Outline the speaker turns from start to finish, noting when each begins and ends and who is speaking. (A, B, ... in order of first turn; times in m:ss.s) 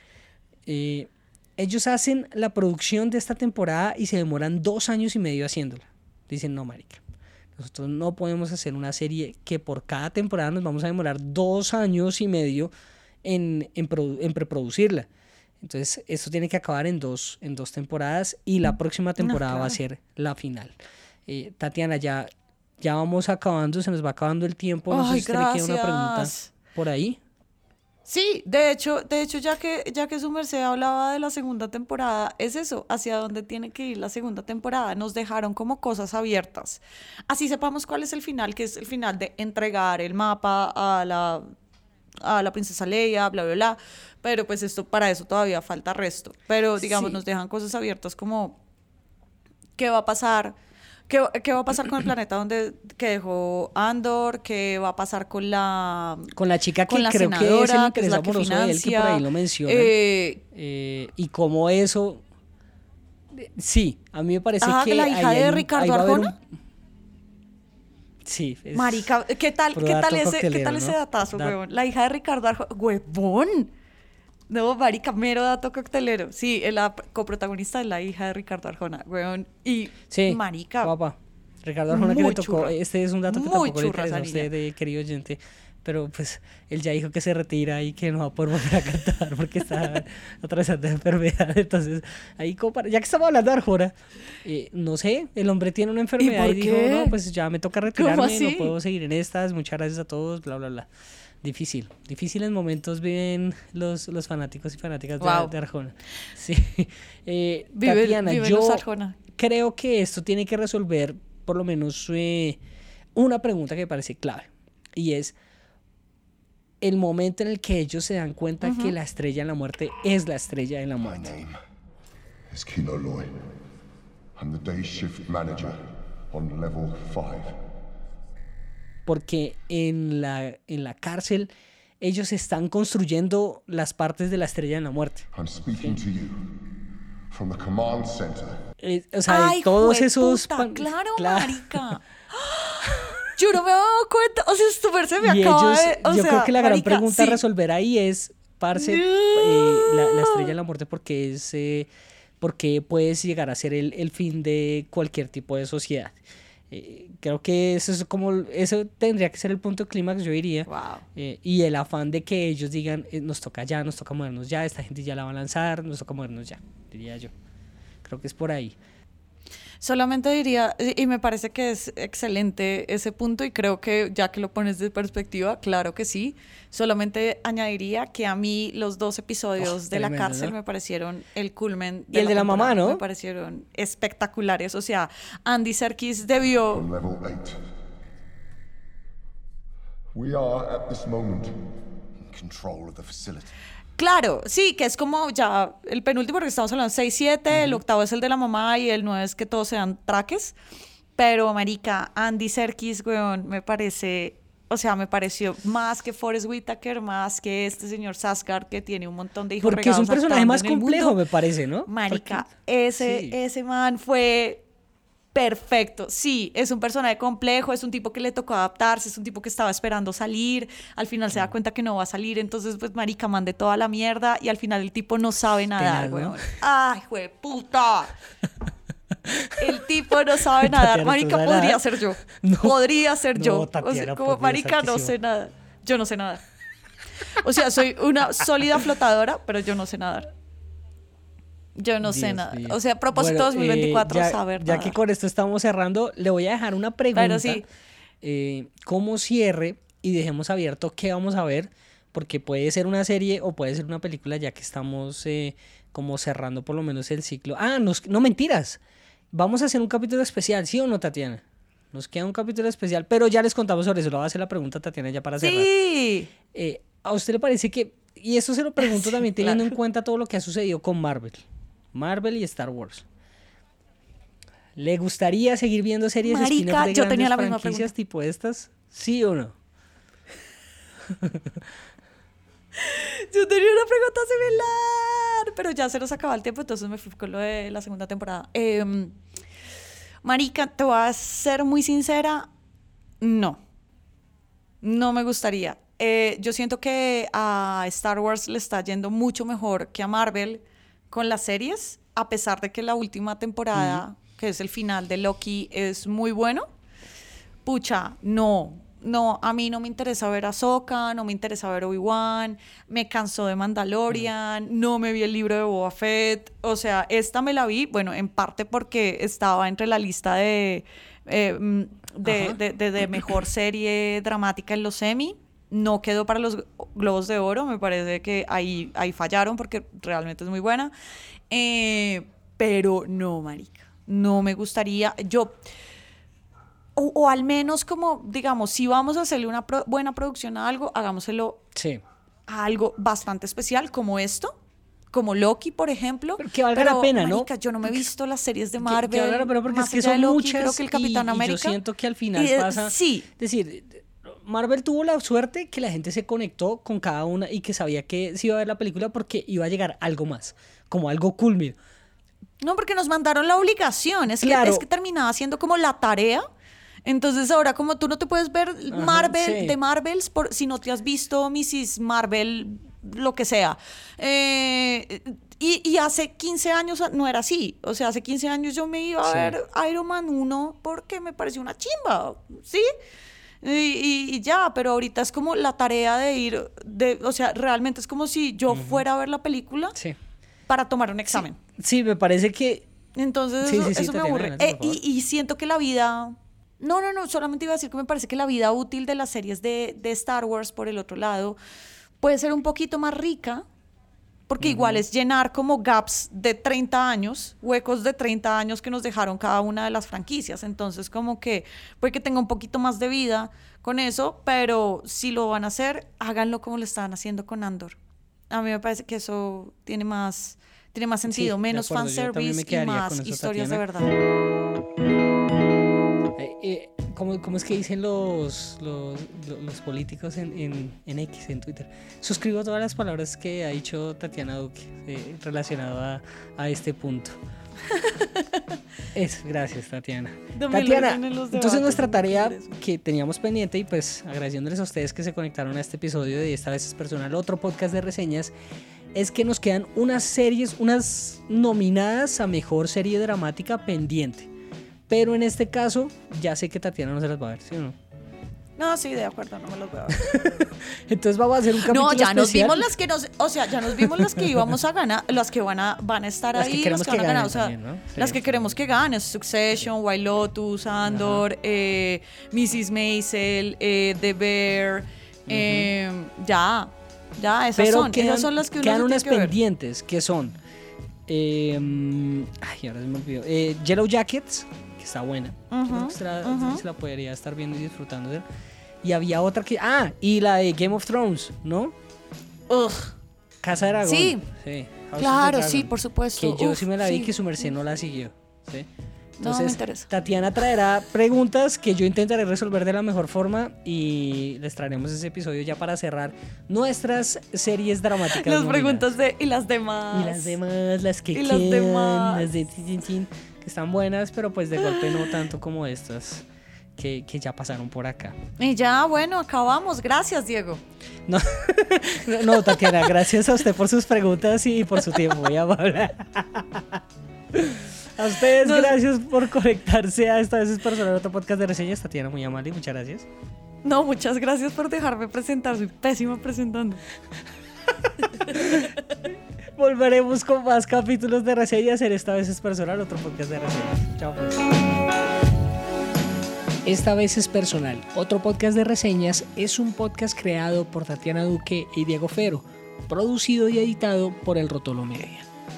0:00.7-0:07.0 A
0:07.6-0:12.7 A
0:13.2-0:15.1 A
0:15.6-0:20.7 A
0:19.2-0:19.8 B
0:21.3-0:22.3 A
0:22.8-0:27.2 A
0:24.9-0:26.5 B
0:28.1-0:41.5 B
0:42.2-0:48.6 B
0:46.8-0:47.2 A
0:49.8-0:50.5 B
0:51.1-0:56.3 B
0:56.3-0:59.9 A
0:56.9-1:00.4 B
1:00.5-1:02.2 A
1:03.3-1:06.4 A
1:04.6-1:06.3 B
1:08.2-1:09.1 A
1:08.7-1:13.7 B
1:09.7-1:11.5 A
1:14.5-1:20.9 B
1:20.1-1:40.9 A
1:21.9-1:22.8 B
1:23.3-1:24.5 B
1:36.2-1:37.1 B
1:38.0-1:38.7 B
1:41.4-1:52.6 A
1:45.2-1:45.5 B
1:47.8-1:49.2 B
1:53.2-1:55.3 A
1:56.8-2:01.4 A
1:58.6-1:58.9 B
2:01.0-2:01.6 C
2:02.5-2:03.4 C
2:04.4-2:07.6 C
2:09.0-2:15.3 A
2:15.3-2:16.6 C
2:17.3-2:18.6 C
2:18.8-2:21.9 A
2:19.3-2:27.4 B
2:25.2-2:31.9 A
2:28.7-2:30.5 B
2:32.4-2:36.2 A
2:36.7-2:47.3 A
2:40.7-2:41.0 B
2:48.0-2:48.8 A
2:49.8-3:06.8 B
2:59.6-3:00.6 A
3:02.1-3:03.0 A
3:06.7-3:07.6 C
3:10.1-3:13.5 C
3:14.0-3:20.5 B
3:17.5-3:17.8 A
3:21.2-3:31.2 B
3:29.6-3:32.5 A
3:31.9-3:34.6 B
3:33.0-3:33.4 A
3:35.3-3:48.1 B
3:45.8-3:46.4 A
3:49.3-3:49.5 A
3:49.6-3:56.4 B
3:50.6-3:52.8 A
3:53.3-3:55.1 A
3:57.4-4:00.3 B
4:01.8-4:05.0 B
4:02.0-4:07.6 A
4:07.1-4:07.6 B
4:08.2-4:18.8 A
4:19.3-4:25.7 A
4:25.4-4:26.3 B
4:26.5-4:33.0 A
4:28.8-4:29.7 B
4:34.8-4:39.5 A
4:36.2-4:37.9 B
4:41.2-4:41.5 A
4:42.8-4:49.1 B
4:50.2-4:52.5 B
4:53.2-4:53.6 B
4:54.8-5:06.6 B
5:03.7-5:04.0 A
5:07.6-5:30.9 B
5:22.2-5:22.6 A
5:31.5-5:35.6 B
5:37.0-5:41.6 B
5:41.7-5:42.0 A
5:42.5-5:44.5 B
5:45.1-5:51.8 B
5:46.4-5:48.1 A
5:48.8-6:01.8 A
5:52.4-5:53.2 B
6:02.6-6:06.4 B
6:04.4-6:04.8 A
6:07.0-6:22.9 B
6:08.9-6:09.8 A
6:19.2-6:19.5 A
6:23.6-6:29.9 B
6:28.7-6:29.0 A
6:30.7-6:31.6 B
6:31.3-6:32.8 A
6:33.2-6:41.6 B
6:33.6-6:35.0 A
6:42.2-6:43.6 B
6:44.5-6:58.0 B
6:44.6-6:45.0 A
6:58.5-7:04.1 B
7:01.3-7:03.8 A
7:06.4-7:17.4 A
7:17.9-7:18.6 B
7:19.1-7:28.5 A
7:20.5-7:22.7 B
7:29.1-7:34.5 A
7:35.1-7:38.0 A
7:38.8-7:40.6 B
7:40.2-7:42.8 A
7:41.8-7:59.5 B
7:43.9-7:44.7 A
7:46.6-7:48.7 A
7:51.0-7:51.4 A
7:55.5-7:55.9 A
7:57.8-8:00.6 A
8:01.3-8:08.4 A
8:05.7-8:06.8 B
8:09.0-8:11.9 A
8:12.7-8:13.1 B
8:13.6-8:18.9 A
8:14.0-8:14.4 B
8:15.2-8:17.7 B
8:19.4-8:20.1 B
8:19.4-8:29.1 A
8:28.3-8:30.6 B
8:30.1-8:36.4 A
8:31.3-8:32.5 B
8:34.8-8:35.2 B
8:37.0-8:38.4 A
8:38.6-8:40.8 B
8:41.3-8:47.0 A
8:42.7-8:43.1 B
8:47.5-8:53.3 A
8:48.6-8:49.0 B
8:53.8-8:57.0 B
8:58.3-8:58.9 A
8:58.4-8:58.9 B
8:59.8-9:04.7 A
9:06.8-9:15.5 A